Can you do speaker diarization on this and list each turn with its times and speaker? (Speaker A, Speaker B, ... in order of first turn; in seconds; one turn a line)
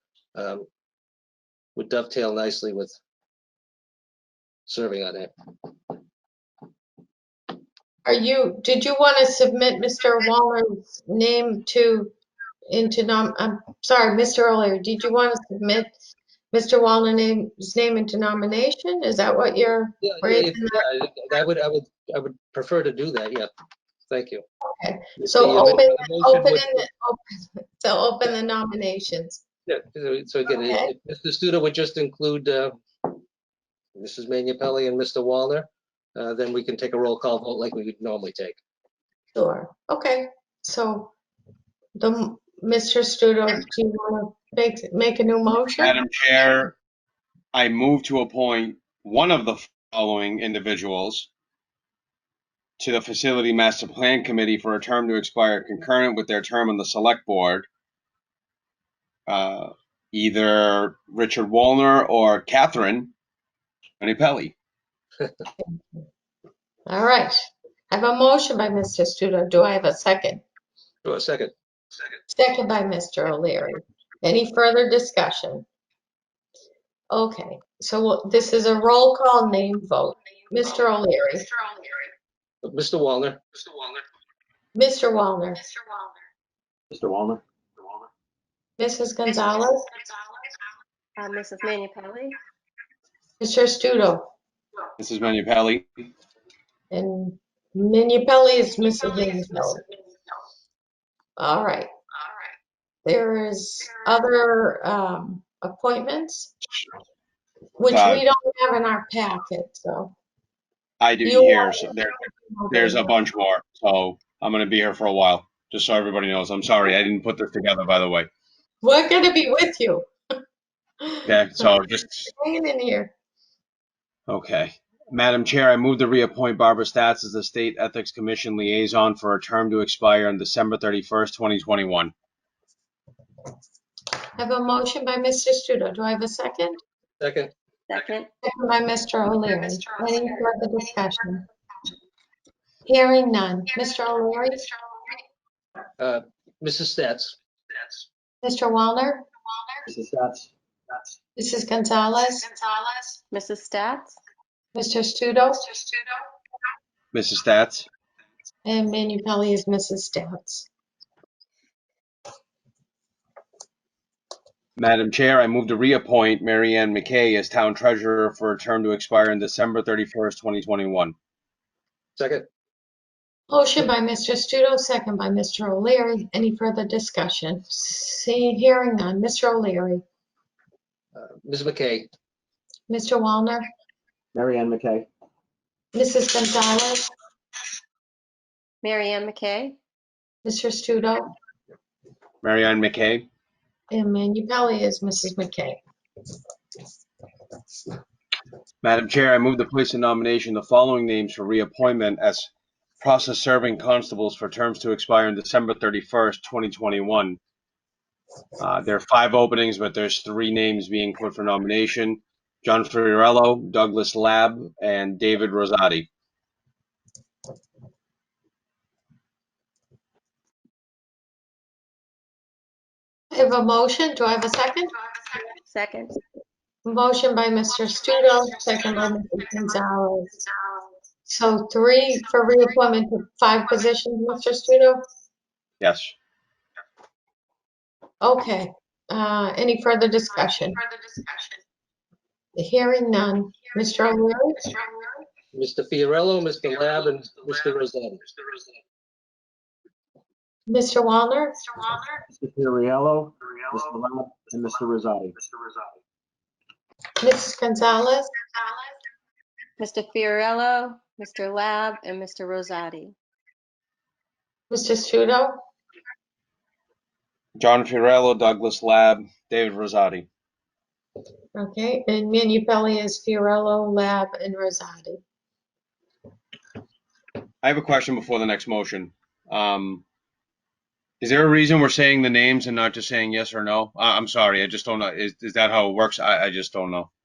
Speaker A: 0.3-0.7
Speaker A: 1.8-3.0
Speaker A: 4.7-5.3
Speaker B: 8.1-12.1
Speaker B: 12.7-16.0
Speaker B: 16.5-20.8
Speaker A: 20.0-23.5
Speaker A: 24.1-24.4
Speaker B: 24.8-29.4
Speaker A: 25.2-26.8
Speaker A: 29.7-32.8
Speaker B: 30.6-30.9
Speaker A: 34.0-38.6
Speaker B: 39.4-41.1
Speaker B: 42.0-46.0
Speaker C: 45.8-46.7
Speaker C: 47.5-51.3
Speaker C: 52.8-57.7
Speaker C: 59.3-63.1
Speaker C: 64.0-64.5
Speaker B: 65.6-66.0
Speaker B: 66.9-67.4
Speaker B: 67.9-70.4
Speaker A: 71.0-71.5
Speaker B: 72.3-75.7
Speaker B: 77.1-81.5
Speaker A: 82.6-83.4
Speaker B: 84.8-85.6
Speaker D: 86.9-88.0
Speaker B: 88.8-89.9
Speaker E: 91.2-92.4
Speaker B: 93.4-94.3
Speaker C: 95.0-96.1
Speaker B: 96.9-99.8
Speaker B: 101.4-101.9
Speaker B: 103.0-106.5
Speaker B: 107.8-110.1
Speaker C: 107.9-108.2
Speaker C: 111.0-112.2
Speaker B: 111.2-113.1
Speaker C: 112.7-118.3
Speaker B: 118.8-120.1
Speaker B: 121.0-123.1
Speaker C: 121.3-122.3
Speaker C: 124.3-132.1
Speaker B: 134.4-136.8
Speaker A: 137.2-137.5
Speaker E: 137.9-138.3
Speaker B: 138.4-141.5
Speaker B: 142.9-144.7
Speaker A: 146.0-147.4
Speaker B: 148.4-149.3
Speaker D: 149.9-151.1
Speaker B: 151.4-152.5
Speaker E: 153.3-154.2
Speaker B: 154.8-155.8
Speaker C: 157.1-157.9
Speaker B: 158.7-160.7
Speaker C: 164.8-171.2
Speaker A: 172.2-172.5
Speaker B: 173.5-180.0
Speaker A: 181.2-182.1
Speaker B: 182.9-183.7
Speaker D: 184.3-185.1
Speaker B: 185.9-187.0
Speaker E: 188.8-189.8
Speaker B: 190.4-191.3
Speaker C: 192.4-193.3
Speaker B: 193.9-195.8
Speaker C: 198.8-202.5
Speaker C: 203.0-207.4
Speaker C: 208.6-216.1
Speaker B: 223.3-224.9
Speaker E: 225.7-226.2
Speaker B: 226.9-230.4
Speaker B: 231.3-235.0
Speaker C: 235.8-236.2
Speaker B: 238.2-240.8
Speaker B: 242.6-244.8
Speaker A: 245.5-248.3
Speaker B: 250.7-251.6
Speaker D: 252.3-255.5
Speaker B: 257.2-258.3
Speaker E: 259.8-263.2
Speaker B: 264.7-265.6
Speaker C: 267.6-270.3
Speaker B: 271.6-275.2
Speaker C: 277.6-280.0
Speaker C: 281.2-287.1